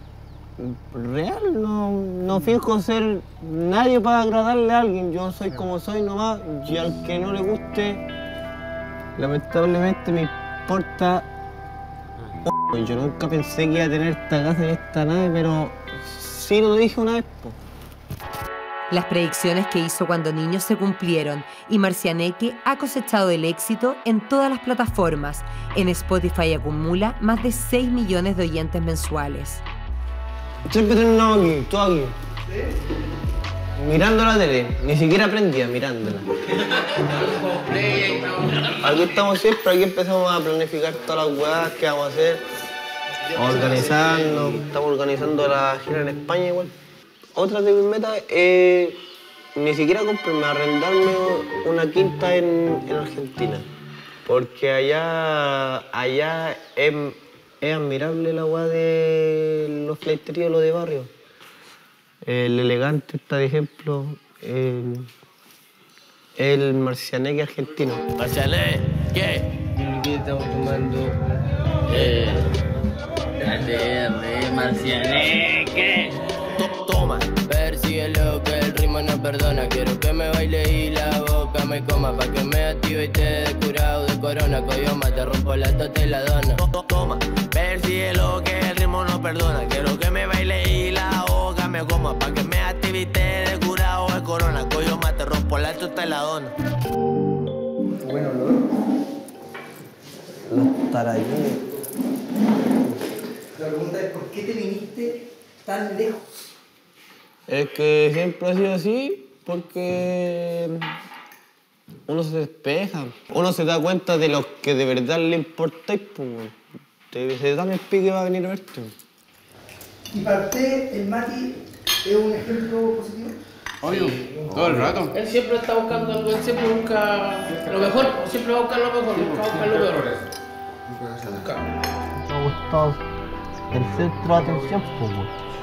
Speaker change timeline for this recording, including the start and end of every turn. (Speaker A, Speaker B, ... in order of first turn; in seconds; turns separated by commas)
Speaker A: 0.6-8.1, Speaker A: 9.2-11.3, Speaker A: 12.4-17.6, Speaker B: 18.9-29.6, Speaker A: 30.7-32.2, Speaker A: 33.8-36.3, Speaker C: 36.9-39.0, Speaker A: 38.8-42.4, Speaker A: 43.3-46.7, Speaker A: 47.4-49.0, Speaker A: 49.5-53.7, Speaker A: 54.2-61.1, Speaker A: 62.2-65.1, Speaker A: 66.4-68.1, Speaker D: 68.2-71.1, Speaker E: 69.9-70.5, Speaker D: 71.9-72.5, Speaker D: 73.4-96.5, Speaker F: 98.0-98.6, Speaker A: 100.5-101.7, Speaker F: 103.6-106.3, Speaker A: 107.5-111.0, Speaker A: 112.1-116.6, Speaker A: 117.1-118.9, Speaker F: 120.1-123.4, Speaker E: 123.8-125.1, Speaker C: 123.9-124.2, Speaker C: 125.1-130.1, Speaker A: 132.2-133.0, Speaker A: 133.7-135.3